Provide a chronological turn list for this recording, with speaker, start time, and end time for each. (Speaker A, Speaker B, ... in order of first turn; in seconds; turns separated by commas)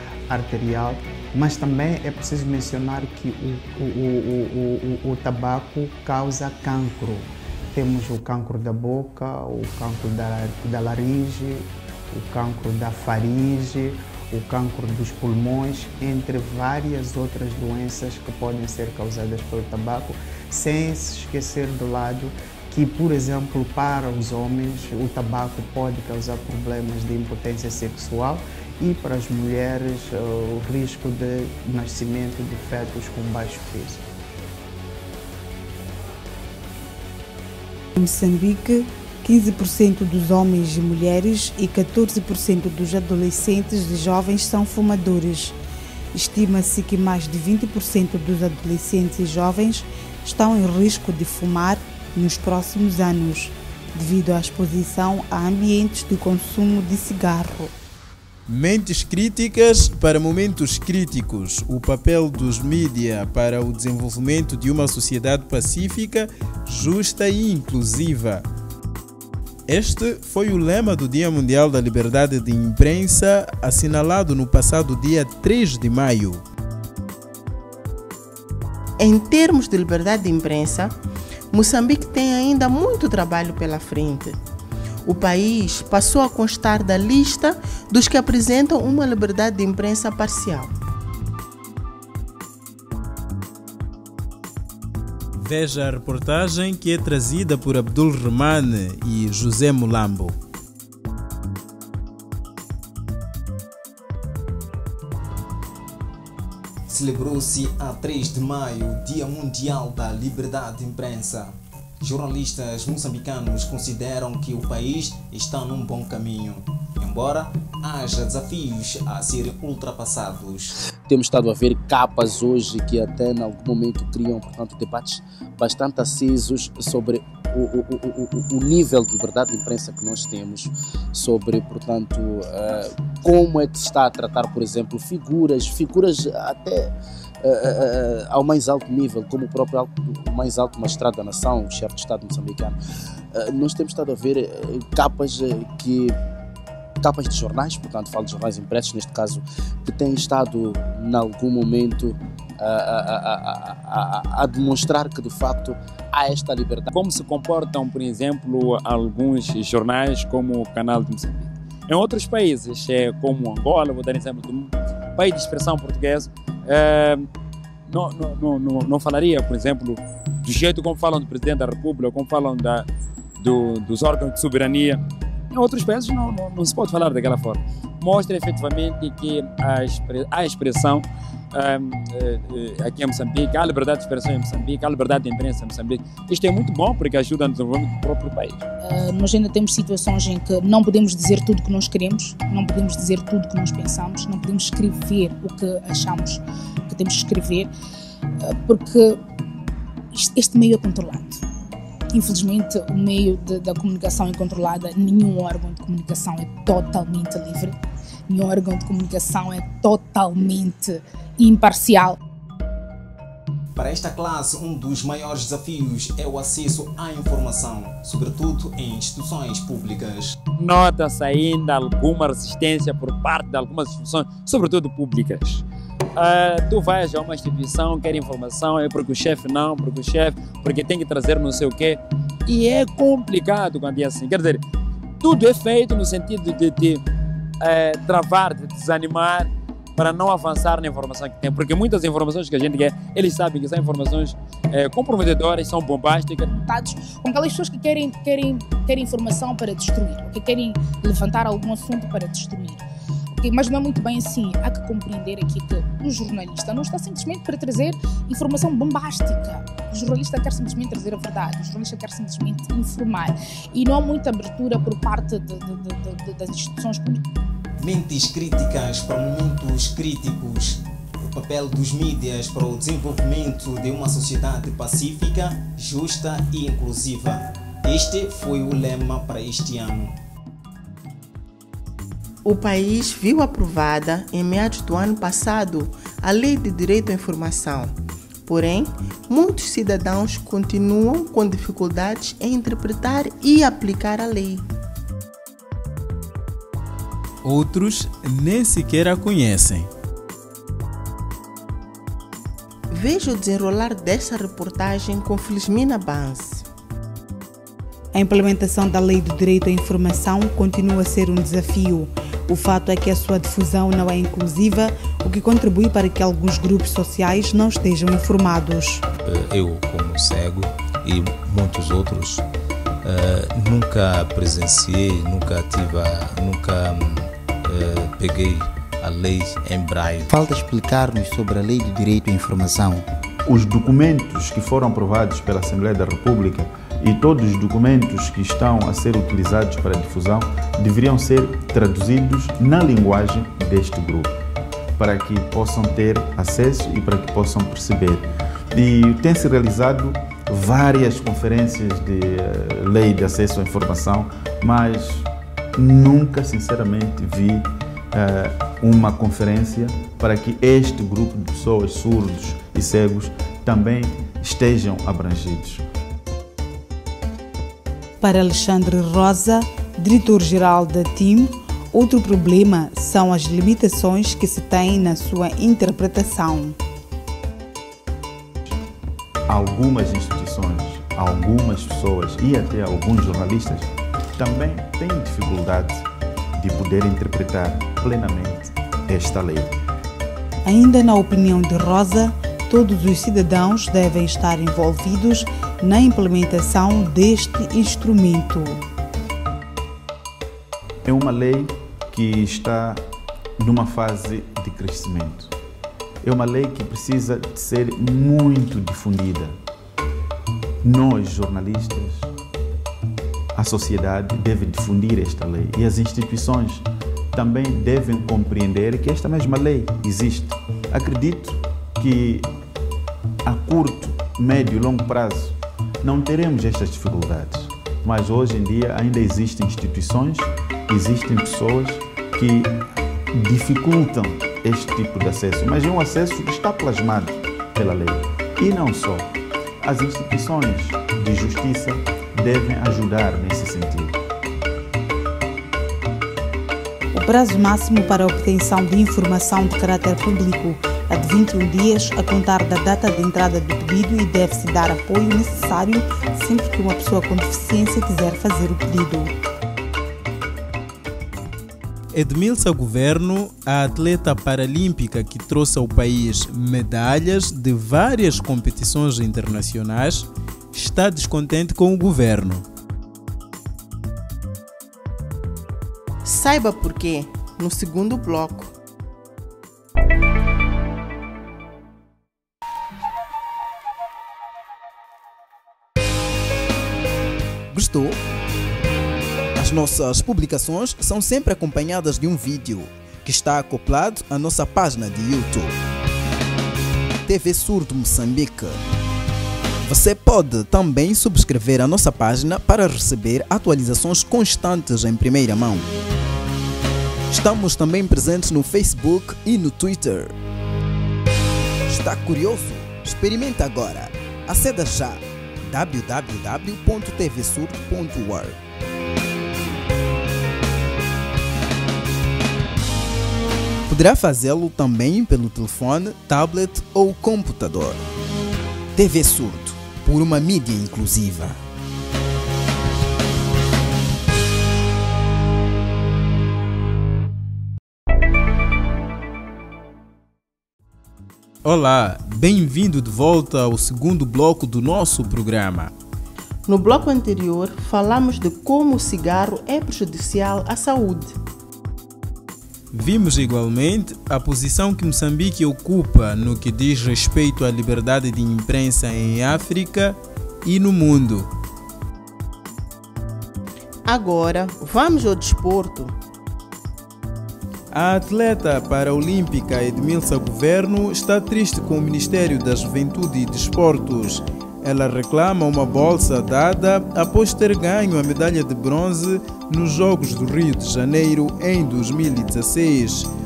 Speaker A: 0.3-34.0, Speaker B: 38.0-45.6, Speaker B: 46.1-57.7, Speaker C: 58.5-68.5, Speaker C: 69.7-76.4, Speaker D: 79.0-80.9, Speaker D: 81.5-84.4, Speaker D: 85.1-90.7, Speaker C: 95.4-100.4, Speaker E: 106.9-120.7, Speaker F: 121.1-142.8, Speaker F: 143.3-146.2, Speaker F: 147.0-156.9, Speaker G: 156.9-167.3, Speaker G: 167.9-172.9, Speaker G: 173.4-188.6, Speaker H: 188.8-197.7, Speaker H: 198.4-199.2, Speaker H: 200.1-201.4, Speaker H: 202.1-207.8, Speaker H: 208.3-212.2, Speaker E: 213.8-220.4, Speaker G: 220.6-225.6, Speaker G: 226.2-234.6, Speaker G: 235.2-237.0, Speaker G: 237.6-246.5, Speaker H: 246.5-267.2, Speaker E: 267.8-280.1, Speaker D: 282.4-287.9, Speaker D: 288.5-294.6, Speaker C: 297.4-299.9, Speaker D: 302.9-306.6, Speaker B: 308.1-319.0, Speaker I: 319.2-322.4, Speaker I: 323.0-330.3, Speaker J: 330.3-333.1, Speaker K: 333.5-344.4, Speaker K: 345.0-365.8, Speaker B: 368.2-376.8, Speaker K: 379.5-386.1, Speaker K: 386.6-389.8, Speaker B: 390.6-398.8, Speaker K: 401.1-403.0, Speaker K: 403.6-405.5, Speaker K: 406.2-409.6, Speaker K: 410.8-412.3, Speaker K: 413.6-422.5, Speaker K: 423.4-432.7, Speaker K: 433.3-439.3, Speaker K: 439.8-444.2, Speaker B: 447.1-459.3, Speaker C: 462.1-472.6, Speaker D: 476.2-478.7, Speaker L: 487.7-488.2, Speaker L: 489.6-495.7, Speaker L: 497.2-498.8, Speaker L: 499.8-505.9, Speaker L: 507.3-510.3, Speaker L: 511.9-518.6, Speaker L: 523.9-528.0, Speaker L: 529.0-531.6, Speaker C: 541.6-545.9, Speaker D: 546.7-551.4, Speaker C: 552.9-561.5, Speaker D: 564.1-566.1, Speaker C: 567.9-583.3